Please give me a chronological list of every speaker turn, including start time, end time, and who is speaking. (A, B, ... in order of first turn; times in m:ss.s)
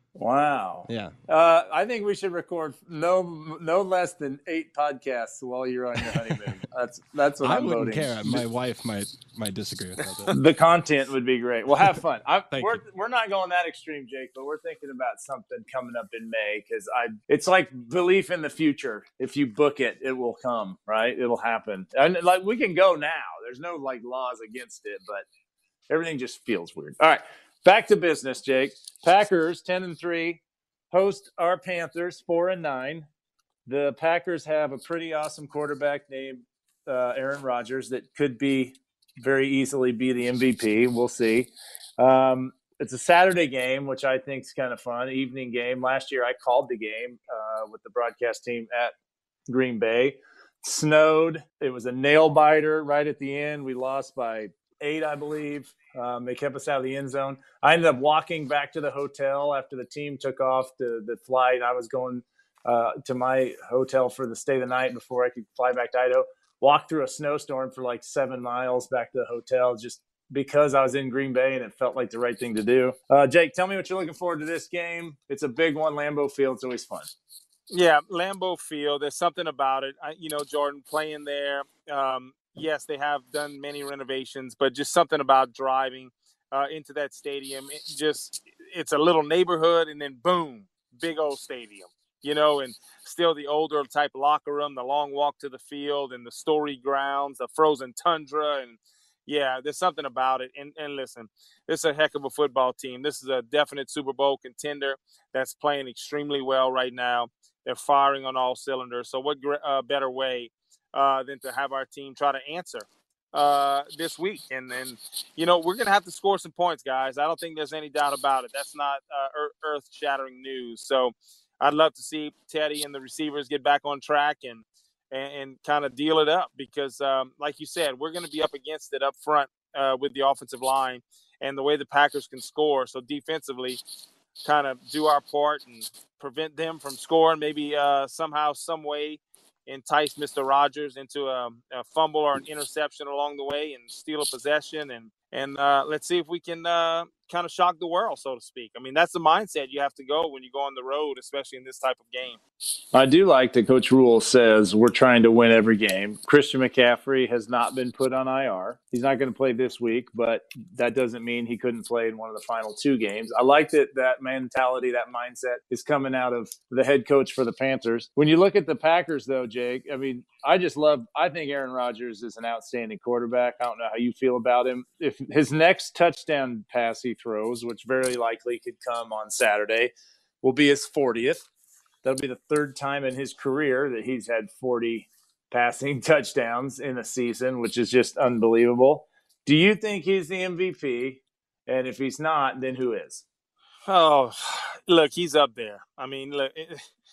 0:00.2-0:08.4 A
0:00.9-0:01.1 B
0:07.4-0:10.3 B
0:10.3-0:25.2 A
0:12.5-0:12.8 B
0:25.9-0:30.4 A
0:30.9-0:33.1 A
0:33.6-0:48.9 A
0:49.5-1:17.1 A
1:17.7-2:13.8 C
2:14.4-2:32.4 C
2:32.9-3:01.4 A
3:02.0-3:13.2 A
3:13.9-3:16.8 C